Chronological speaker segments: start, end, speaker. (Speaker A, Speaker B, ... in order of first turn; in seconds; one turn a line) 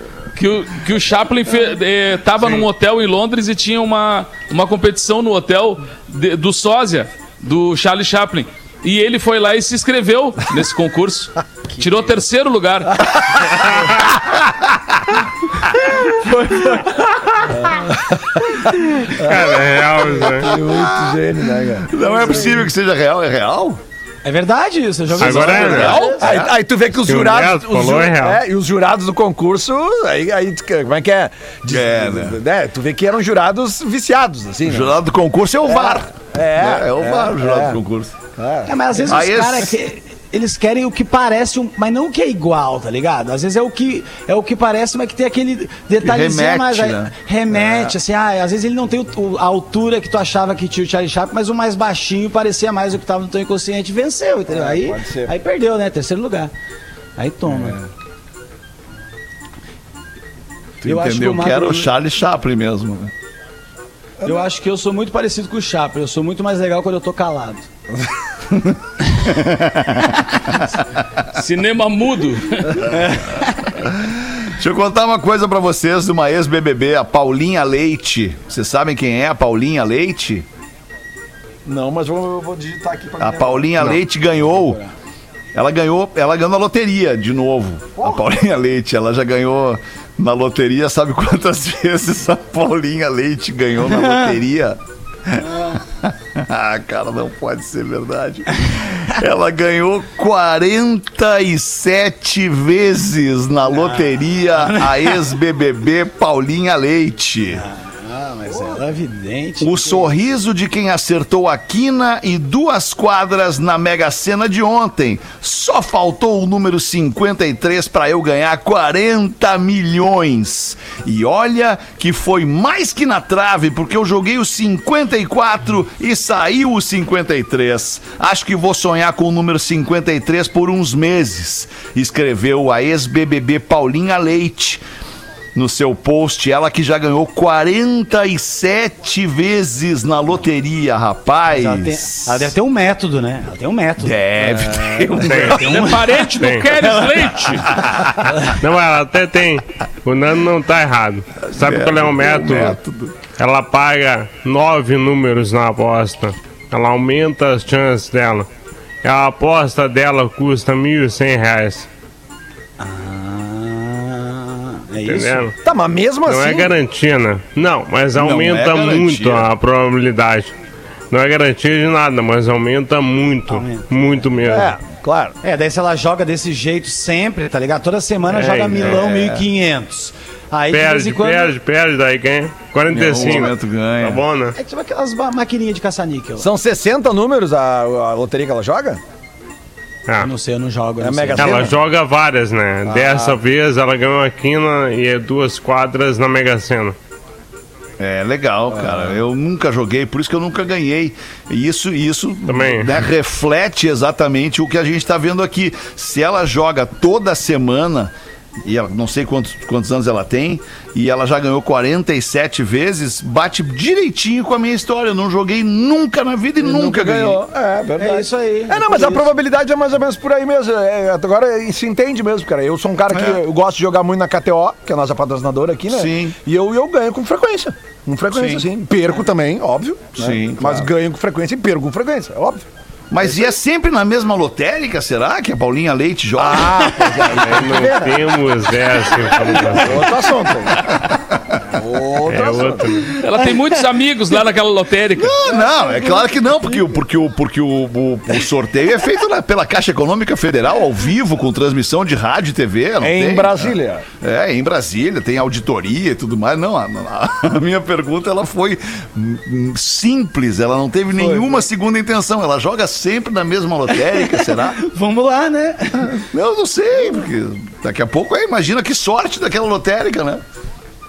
Speaker A: 0.3-13.2
Speaker B: 16.1-17.1
Speaker C: 17.6-18.4
Speaker D: 19.1-20.5
Speaker C: 19.2-22.6
Speaker E: 21.9-23.8
Speaker B: 24.2-26.4
Speaker E: 25.1-26.1
Speaker D: 25.2-26.2
Speaker C: 25.9-35.0
Speaker D: 27.0-28.4
Speaker E: 31.7-32.4
Speaker E: 34.6-38.1
Speaker C: 35.7-37.8
Speaker C: 38.4-39.1
Speaker B: 38.6-56.5
Speaker E: 39.1-39.7
Speaker E: 46.0-47.9
Speaker C: 54.5-55.4
Speaker B: 57.2-57.8
Speaker E: 57.5-57.8
Speaker E: 60.8-63.1
Speaker B: 60.8-61.9
Speaker B: 64.2-67.7
Speaker E: 68.5-70.6
Speaker A: 71.3-72.9
Speaker B: 72.9-73.4
Speaker E: 73.8-80.5
Speaker C: 81.7-84.0
Speaker E: 83.2-84.8
Speaker E: 85.5-107.6
Speaker C: 88.0-88.2
Speaker B: 93.9-94.3
Speaker B: 103.7-105.1
Speaker B: 107.6-110.1
Speaker E: 109.6-134.8
Speaker E: 135.5-142.5
Speaker B: 141.5-144.2
Speaker E: 144.0-145.6
Speaker C: 144.4-145.2
Speaker D: 145.2-145.7
Speaker B: 145.3-147.8
Speaker A: 145.6-147.7
Speaker D: 146.4-146.7
Speaker E: 147.7-148.1
Speaker D: 148.4-152.8
Speaker E: 151.4-153.1
Speaker D: 153.4-158.5
Speaker D: 159.0-161.9
Speaker B: 162.8-165.5
Speaker D: 165.0-165.5
Speaker C: 165.6-166.7
Speaker D: 166.2-170.5
Speaker E: 168.2-169.5
Speaker D: 171.1-174.7
Speaker B: 173.5-174.2
Speaker C: 174.4-175.4
Speaker B: 175.4-181.5
Speaker D: 178.3-179.0
Speaker E: 178.7-179.5
Speaker D: 180.7-184.6
Speaker E: 182.9-184.2
Speaker B: 184.6-186.5
Speaker C: 186.4-189.0
Speaker D: 190.1-190.3
Speaker B: 190.2-191.7
Speaker C: 191.0-191.8
Speaker D: 191.3-196.9
Speaker C: 192.8-193.4
Speaker E: 198.0-208.1
Speaker C: 198.7-199.2
Speaker D: 202.5-202.9
Speaker E: 208.6-217.4
Speaker C: 216.6-232.7
Speaker B: 218.0-219.3
Speaker E: 223.1-223.4
Speaker E: 225.9-226.4
Speaker E: 228.3-228.6
Speaker E: 230.2-230.9
Speaker E: 233.1-236.9
Speaker C: 233.2-233.5
Speaker C: 236.4-238.4
Speaker B: 236.9-237.3
Speaker D: 237.4-240.2
Speaker C: 239.7-240.8
Speaker E: 241.4-241.6
Speaker C: 241.7-243.0
Speaker D: 242.2-243.2
Speaker A: 243.2-245.4
Speaker E: 245.2-264.8
Speaker C: 253.0-254.0
Speaker B: 261.1-261.6
Speaker B: 264.3-266.2
Speaker E: 266.0-270.4